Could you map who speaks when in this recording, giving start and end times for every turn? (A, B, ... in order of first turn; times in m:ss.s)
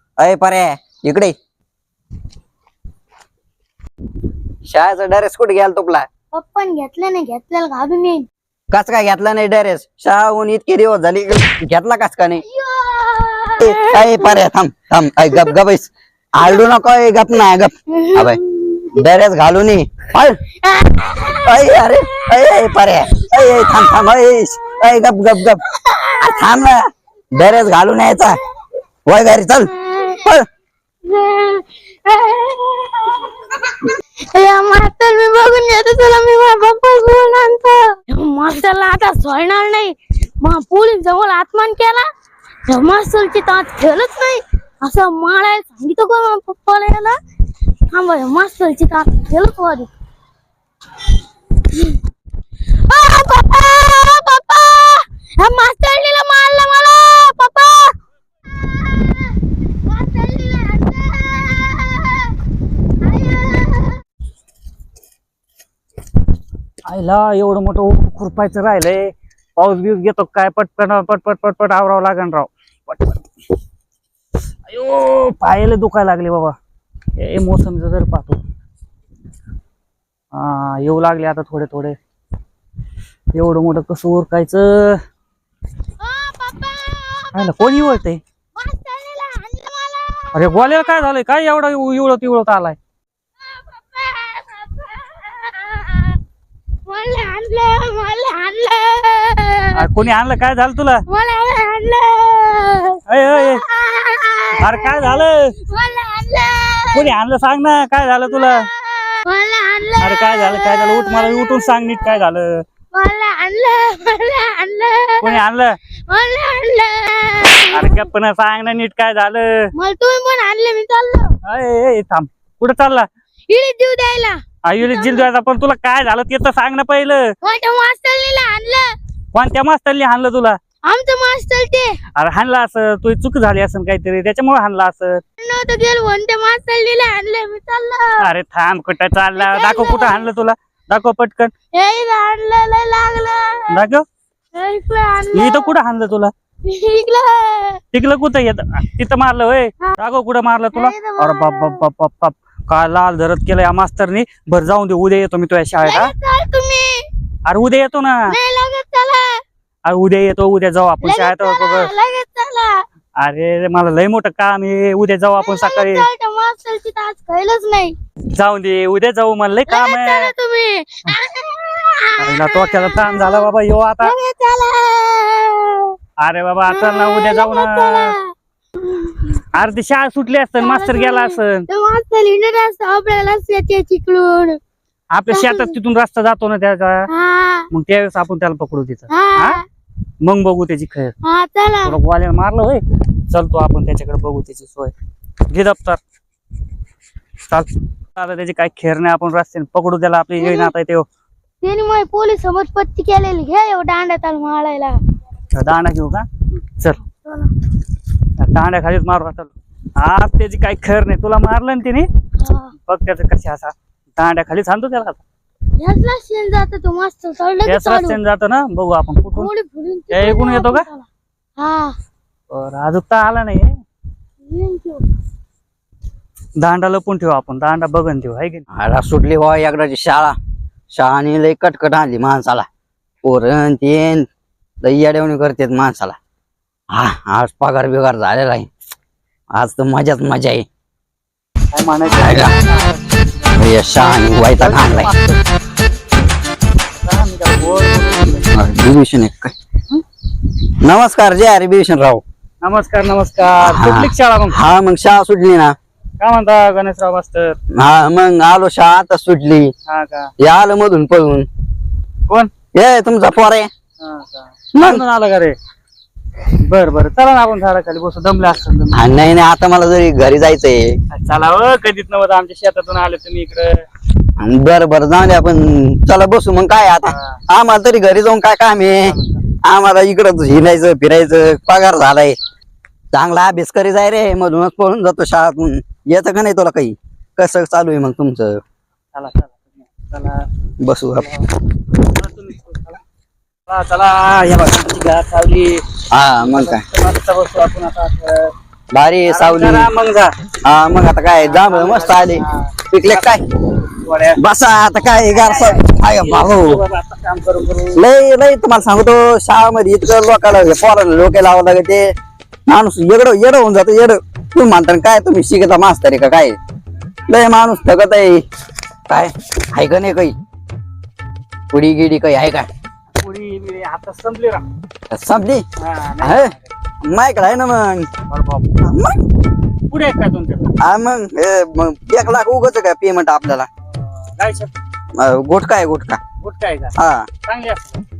0:00.2-0:01.3 A
0:04.6-0:06.0 A
0:06.3-0:08.3 B
0:08.7-0:12.4 A
0:12.4-0:14.4 B
0:13.6-0:18.4 A
0:15.3-0:15.6 B
0:17.9-0:19.0 B
0:18.9-0:20.4 A
0:20.6-0:26.5 B
0:21.4-0:25.6 A
0:26.2-0:26.8 A
0:27.3-0:28.4 A
0:29.0-0:29.7 A
0:29.7-0:30.3 B
0:31.0-0:42.0 B
0:42.7-0:47.2 B
0:47.9-0:49.9 B
0:51.7-0:52.0 B
0:52.7-0:57.9 B
0:58.5-1:02.4 B
1:03.0-1:04.0 B
1:06.8-1:13.2 C
1:14.7-1:16.6 C
1:17.1-1:18.4 C
1:20.3-1:22.0 C
1:23.3-1:25.0 C
1:26.0-1:27.4 B
1:27.3-1:28.2 C
1:28.6-1:31.1 B
1:30.3-1:32.8 C
1:33.4-1:36.2 B
1:36.8-1:39.9 B
1:39.7-1:41.0 C
1:41.1-1:47.2 B
1:43.1-1:43.6 C
1:44.6-1:45.6 C
1:46.9-1:48.7 C
1:48.3-1:52.2 B
1:50.0-1:52.6 C
1:52.9-1:55.4 B
1:55.2-1:55.8 C
1:56.1-1:58.0 B
1:57.7-1:59.7 C
1:59.7-2:01.3 B
2:01.4-2:03.1 C
2:03.5-2:05.3 B
2:04.6-2:07.3 C
2:07.4-2:08.9 B
2:09.3-2:10.6 C
2:10.8-2:12.0 B
2:12.1-2:15.2 C
2:15.4-2:18.3 B
2:18.2-2:21.5 C
2:19.3-2:20.3 B
2:21.7-2:23.8 B
2:23.7-2:24.0 C
2:24.5-2:25.8 B
2:25.3-2:26.3 C
2:26.6-2:27.8 B
2:27.9-2:36.1 C
2:30.7-2:31.8 B
2:35.8-2:37.1 B
2:37.4-2:38.4 C
2:38.3-2:39.4 B
2:39.8-2:41.9 C
2:41.0-2:42.8 B
2:43.2-2:46.1 C
2:45.4-2:47.9 B
2:48.3-2:50.3 C
2:49.7-2:55.9 B
2:52.2-2:54.1 C
2:56.2-2:58.1 C
2:56.7-2:59.4 B
2:59.5-3:01.7 C
3:00.6-3:04.6 B
3:05.1-3:07.0 C
3:05.3-3:05.8 B
3:07.1-3:07.7 B
3:07.7-3:09.6 C
3:09.1-3:09.6 B
3:10.2-3:11.1 C
3:11.2-3:12.0 B
3:11.8-3:14.9 C
3:15.5-3:16.0 C
3:17.5-3:21.0 C
3:20.4-3:20.7 B
3:21.6-3:25.0 B
3:25.5-3:26.3 C
3:27.1-3:27.5 B
3:28.4-3:32.1 C
3:32.4-3:32.7 B
3:32.8-3:35.2 C
3:35.8-3:38.2 B
3:37.7-3:39.5 C
3:39.3-3:41.1 B
3:40.1-3:40.8 C
3:41.6-3:41.9 B
3:42.5-3:43.7 C
3:44.4-3:45.0 B
3:46.6-3:48.6 C
3:48.7-3:50.4 A
3:50.9-3:52.7 A
3:53.2-3:54.3 A
3:54.8-3:56.2 A
3:56.9-3:58.7 A
3:59.5-4:00.6 A
4:01.7-4:05.4 C
4:02.0-4:02.6 A
4:03.5-4:05.1 A
4:07.0-4:08.5 C
4:08.5-4:09.5 A
4:10.6-4:12.2 A
4:12.6-4:14.6 C
4:13.6-4:15.7 A
4:16.2-4:17.6 C
4:17.7-4:19.7 A
4:19.9-4:20.3 C
4:20.4-4:21.5 A
4:22.7-4:23.7 A
4:24.0-4:25.6 C
4:24.7-4:25.0 A
4:26.6-4:29.1 C
4:28.9-4:31.0 A
4:31.1-4:33.8 C
4:34.4-4:42.4 A
4:37.1-4:37.4 C
4:38.9-4:39.4 C
4:43.1-4:48.6 A
4:49.1-4:50.4 C
4:50.8-4:51.3 A
4:51.2-4:51.4 C
4:52.0-4:53.0 C
4:53.7-4:55.8 C
4:56.1-4:56.8 A
4:56.4-4:58.5 C
4:58.9-4:59.9 A
4:59.2-5:00.3 C
5:00.6-5:03.4 A
5:01.4-5:04.4 C
5:04.4-5:06.8 A
5:05.1-5:08.0 C
5:07.9-5:12.1 A
5:12.7-5:16.6 A
5:17.3-5:18.4 A
5:19.1-5:20.3 A
5:21.7-5:22.7 A
5:23.2-5:24.6 C
5:25.1-5:25.6 A
5:25.8-5:26.7 C
5:26.2-5:28.1 A
5:28.3-5:28.8 C
5:28.8-5:29.2 A
5:29.9-5:30.7 C
5:30.8-5:33.7 A
5:34.2-5:34.7 C
5:35.2-5:36.2 A
5:36.4-5:36.9 C
5:37.0-5:37.3 A
5:37.4-5:38.0 C